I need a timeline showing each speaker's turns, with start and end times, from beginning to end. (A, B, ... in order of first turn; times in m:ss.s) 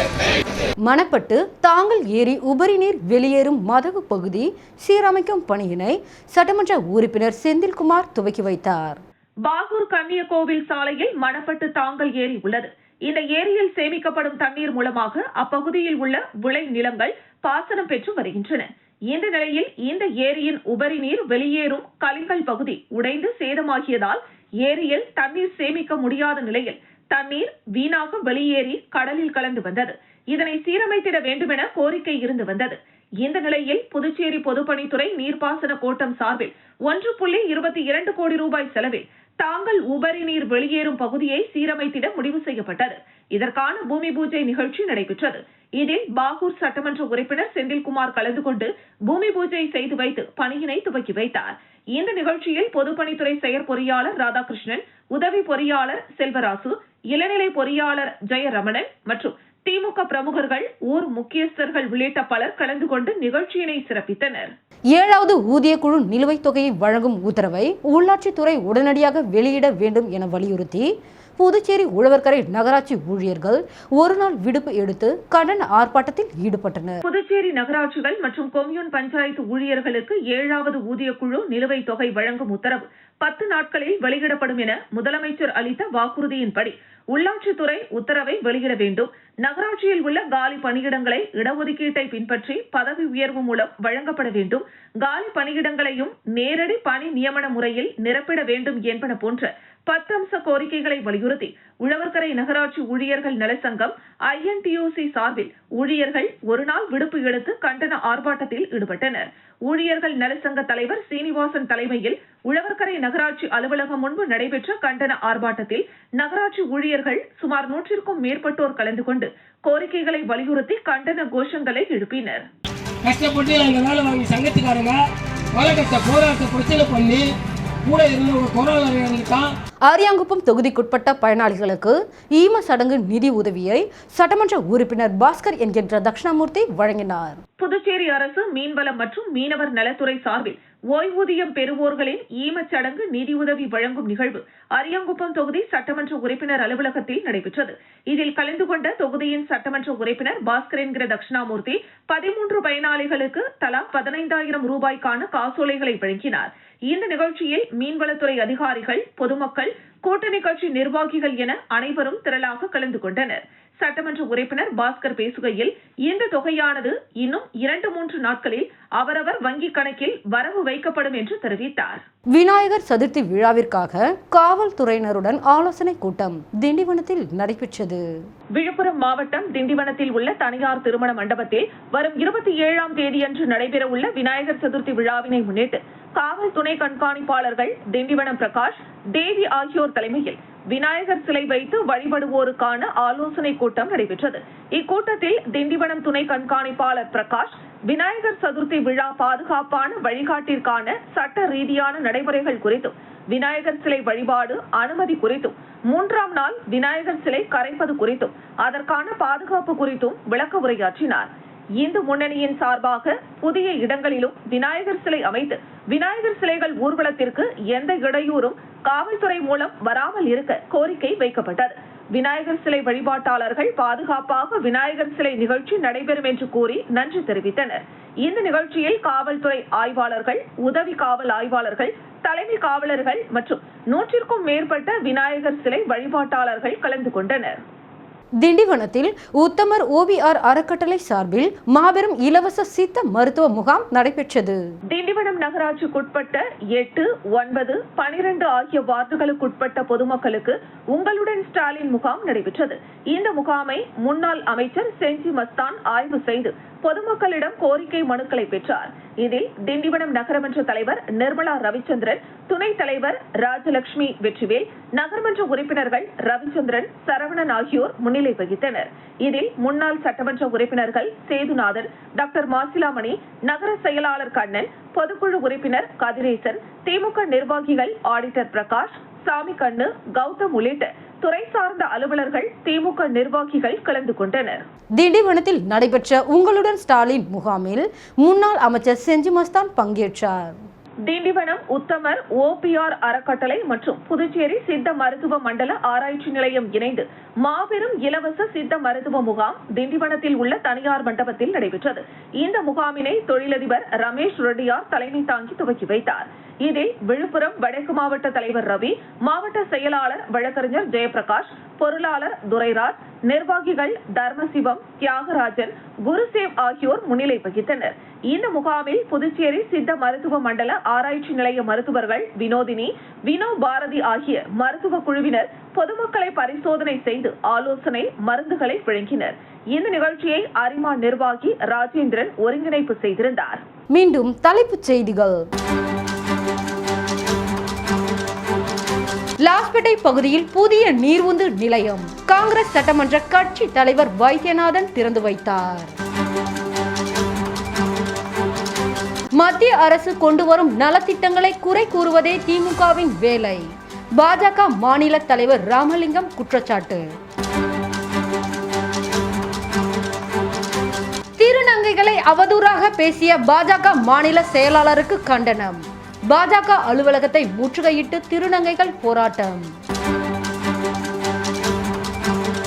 0:00.9-0:09.0 A
0:09.5-1:04.5 B
1:05.0-1:17.0 A
1:17.0-2:02.5 B
2:03.0-2:05.0 C
2:05.6-2:07.3 C
2:07.8-2:09.5 C
2:09.9-2:17.4 A
2:17.6-2:52.0 B
2:52.3-2:58.0 A
2:58.6-3:57.6 B
3:58.4-4:04.6 A
4:04.9-4:44.7 B
4:45.0-4:50.6 A
4:51.1-5:33.6 B
5:33.9-5:35.4 A
5:39.4-5:46.0 A
5:49.4-5:57.0 A
6:01.4-6:09.7 A